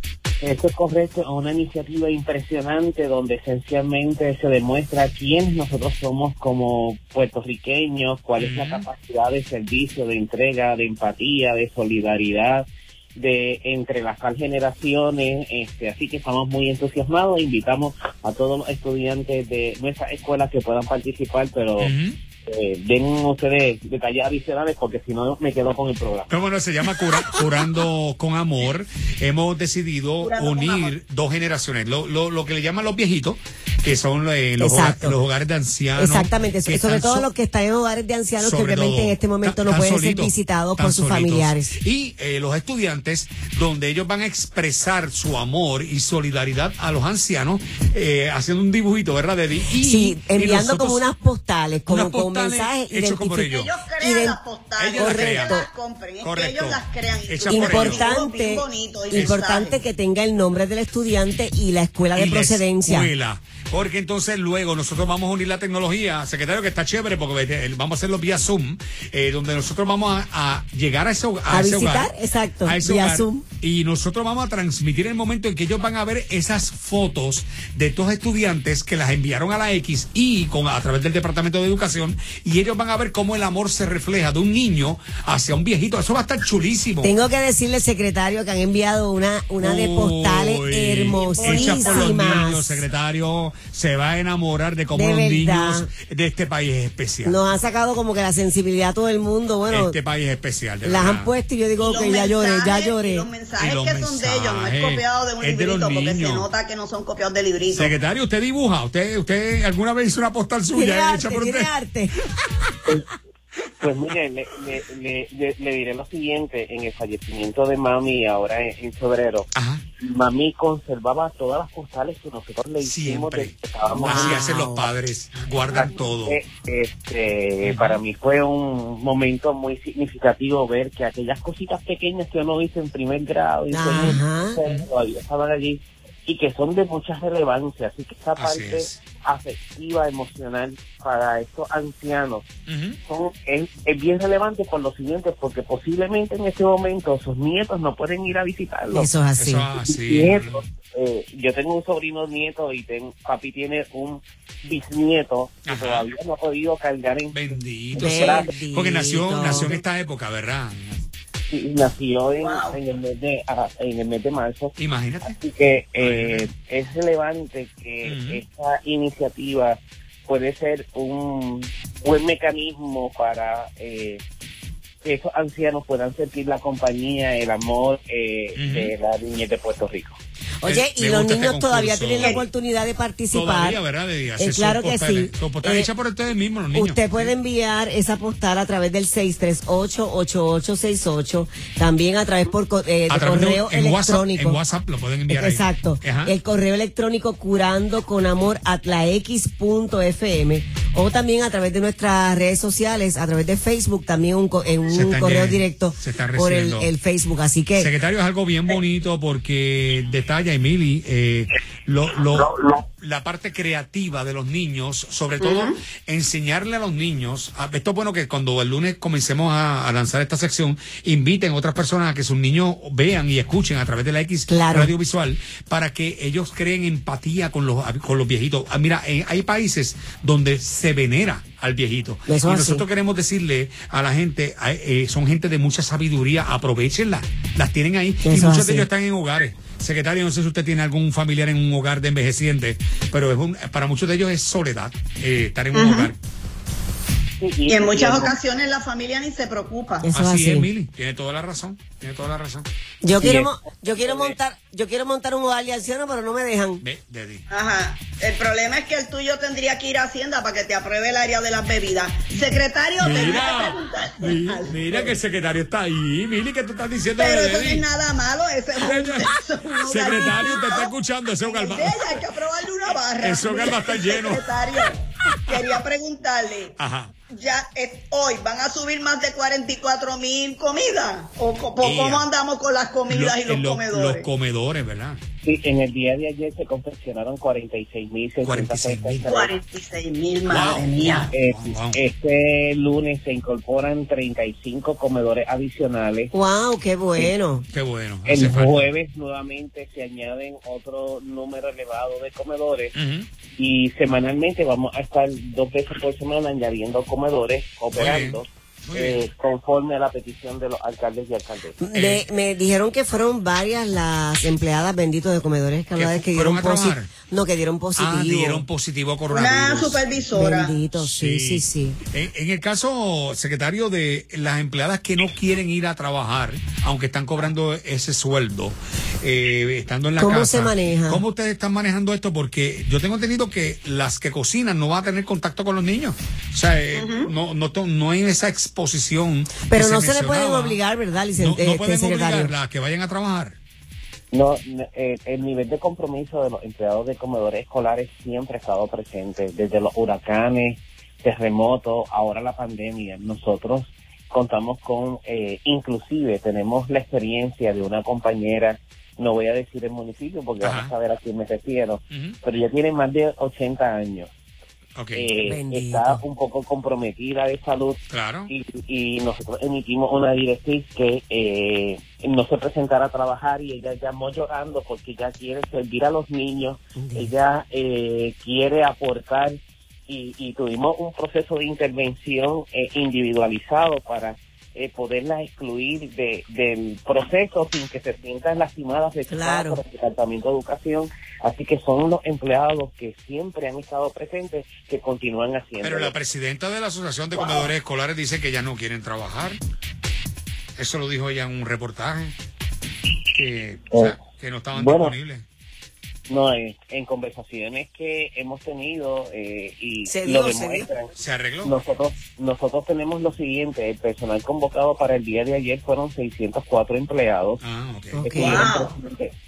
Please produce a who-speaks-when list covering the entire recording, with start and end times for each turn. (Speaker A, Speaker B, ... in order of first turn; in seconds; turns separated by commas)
Speaker A: 0.4-21.9, Speaker B: 8.4-8.9, Speaker B: 21.8-22.2, Speaker A: 22.4-26.3, Speaker B: 26.3-37.3, Speaker C: 30.2-30.9, Speaker D: 34.6-35.2, Speaker D: 36.0-41.7, Speaker B: 38.4-51.0, Speaker D: 49.7-54.4, Speaker B: 51.9-53.8, Speaker C: 53.5-59.8, Speaker B: 54.8-55.6, Speaker D: 54.9-55.7, Speaker B: 56.2-58.1, Speaker D: 57.5-63.1, Speaker B: 59.1-59.5, Speaker B: 62.1-72.1, Speaker D: 71.5-73.4, Speaker B: 72.6-87.1, Speaker D: 87.0-92.8, Speaker B: 89.6-97.4, Speaker C: 91.2-92.1, Speaker D: 94.9-95.9, Speaker D: 97.2-100.0, Speaker B: 99.7-101.3, Speaker D: 100.8-103.3, Speaker C: 101.8-107.9, Speaker B: 103.5-106.5, Speaker B: 107.7-111.7, Speaker D: 110.7-112.2, Speaker A: 113.8-124.4, Speaker B: 119.5-119.8, Speaker B: 122.8-126.4, Speaker D: 124.0-124.9, Speaker A: 125.6-142.5, Speaker B: 127.6-128.0, Speaker D: 133.7-134.6, Speaker B: 138.3-139.0, Speaker B: 142.7-143.0, Speaker A: 143.1-149.1, Speaker D: 148.9-149.7, Speaker B: 149.4-150.6, Speaker A: 149.7-158.6, Speaker B: 155.7-156.1, Speaker B: 157.3-161.0, Speaker D: 158.0-159.8, Speaker A: 161.5-174.2, Speaker C: 162.4-162.8, Speaker B: 164.8-165.3, Speaker B: 166.0-166.5, Speaker B: 168.0-168.4, Speaker A: 175.0-180.2, Speaker B: 178.6-178.9, Speaker D: 180.6-183.8, Speaker B: 180.6-182.4, Speaker C: 182.2-182.5, Speaker B: 183.3-187.3, Speaker D: 184.4-185.9, Speaker D: 186.7-194.6, Speaker B: 193.1-196.3, Speaker D: 195.3-207.9, Speaker B: 204.9-206.9, Speaker B: 207.8-246.2, Speaker C: 215.4-215.8, Speaker D: 224.5-224.9, Speaker D: 232.3-232.8, Speaker D: 238.2-238.9, Speaker C: 245.7-246.1, Speaker A: 247.4-248.3, Speaker C: 247.7-250.1, Speaker D: 250.0-250.7, Speaker B: 250.1-252.7, Speaker D: 253.0-256.8, Speaker A: 253.2-254.3, Speaker B: 256.8-257.4, Speaker C: 257.5-265.2, Speaker B: 263.0-267.9, Speaker C: 267.2-284.3, Speaker B: 268.9-269.3, Speaker D: 269.7-270.5, Speaker B: 269.8-272.3, Speaker B: 273.2-274.5, Speaker B: 275.5-275.8, Speaker B: 276.8-277.2, Speaker B: 281.8-282.3, Speaker B: 283.1-285.2, Speaker A: 285.4-289.5, Speaker B: 288.4-289.3, Speaker C: 289.3-291.3, Speaker B: 290.4-292.0, Speaker A: 291.3-296.3, Speaker D: 296.3-297.6, Speaker B: 297.7-298.9, Speaker A: 298.2-302.9, Speaker B: 302.9-303.3, Speaker A: 303.6-311.8, Speaker B: 307.9-309.2, Speaker D: 311.8-318.6, Speaker B: 311.9-312.2, Speaker B: 315.9-317.1, Speaker B: 317.9-320.1, Speaker C: 319.3-320.9, Speaker D: 320.3-322.0, Speaker B: 320.9-340.8, Speaker D: 330.2-331.2, Speaker C: 336.9-337.3, Speaker D: 339.7-342.5, Speaker B: 341.4-343.6, Speaker A: 344.3-364.3, Speaker B: 360.6-360.9, Speaker B: 362.1-362.4, Speaker B: 364.9-365.3, Speaker A: 365.1-379.6, Speaker D: 365.4-366.2, Speaker B: 368.1-368.5, Speaker D: 377.0-377.3, Speaker A: 380.1-396.1, Speaker D: 389.3-389.8, Speaker B: 395.8-399.6, Speaker B: 400.8-402.3, Speaker B: 403.3-405.4, Speaker A: 403.9-404.1, Speaker A: 404.7-405.1, Speaker A: 406.3-411.1, Speaker D: 410.1-410.9, Speaker B: 411.1-411.7, Speaker A: 411.6-417.6, Speaker B: 417.6-418.3, Speaker D: 418.1-418.7, Speaker A: 418.2-419.3, Speaker C: 418.3-418.9